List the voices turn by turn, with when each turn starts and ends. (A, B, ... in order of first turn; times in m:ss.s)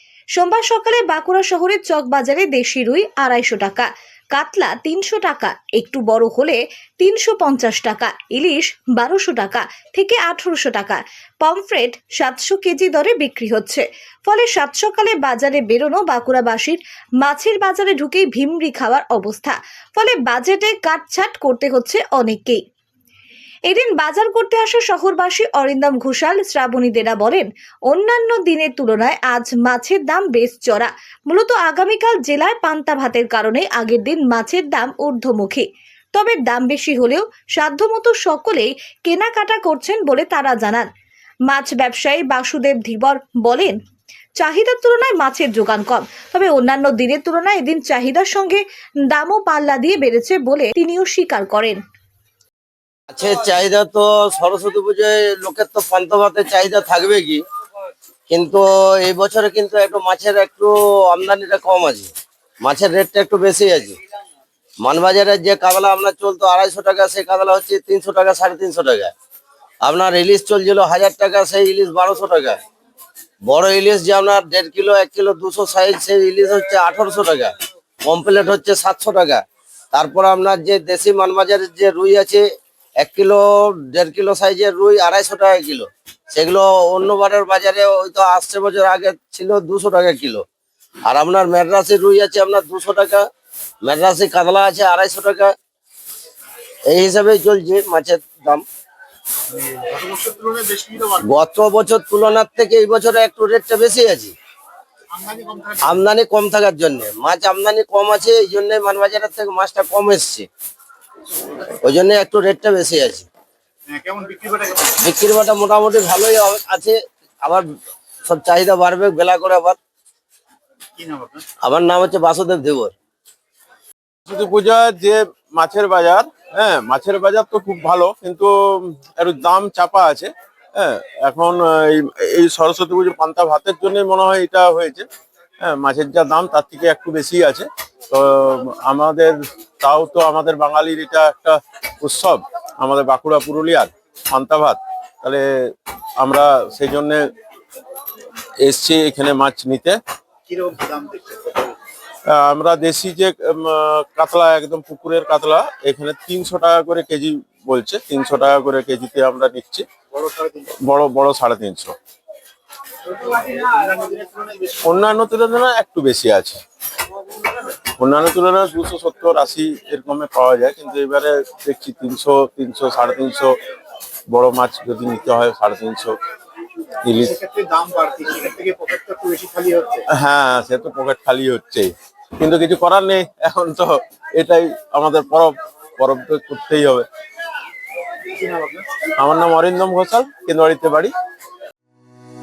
0:00.4-0:22.6 A
0:23.7-0:40.9 A
0:41.5-0:43.8 A
0:44.4-0:51.8 A
0:53.1-0:57.4 B
0:58.3-1:02.1 B
1:02.6-1:04.0 B
1:04.8-1:09.1 B
1:09.8-1:12.6 B
1:13.4-1:17.5 B
1:18.0-1:19.4 B
1:19.9-1:22.4 B
1:23.0-1:30.4 B
1:31.0-1:33.2 B
1:33.8-1:35.5 B
1:36.9-1:38.6 B
1:39.5-1:41.2 C
1:41.2-1:44.3 B
1:45.1-1:45.8 C
1:45.8-1:50.5 B
1:51.8-1:53.2 B
1:53.9-1:54.9 C
1:55.0-1:57.7 B
1:58.2-1:59.8 B
2:01.0-2:01.4 C
2:01.6-2:02.9 B
2:04.3-2:15.1 D
2:15.6-2:25.4 D
2:26.2-2:27.2 D
2:28.6-2:30.0 D
2:30.5-2:31.8 C
2:32.3-2:39.8 D
2:40.1-2:40.6 C
2:40.8-2:41.9 D
2:43.8-2:44.7 C
2:44.7-2:46.6 D
2:48.0-2:53.5 D
2:54.3-2:56.2 D
2:57.0-2:57.4 D
2:57.4-3:00.0 C
3:00.1-3:07.1 D
3:08.4-3:08.9 C
3:09.2-3:11.1 D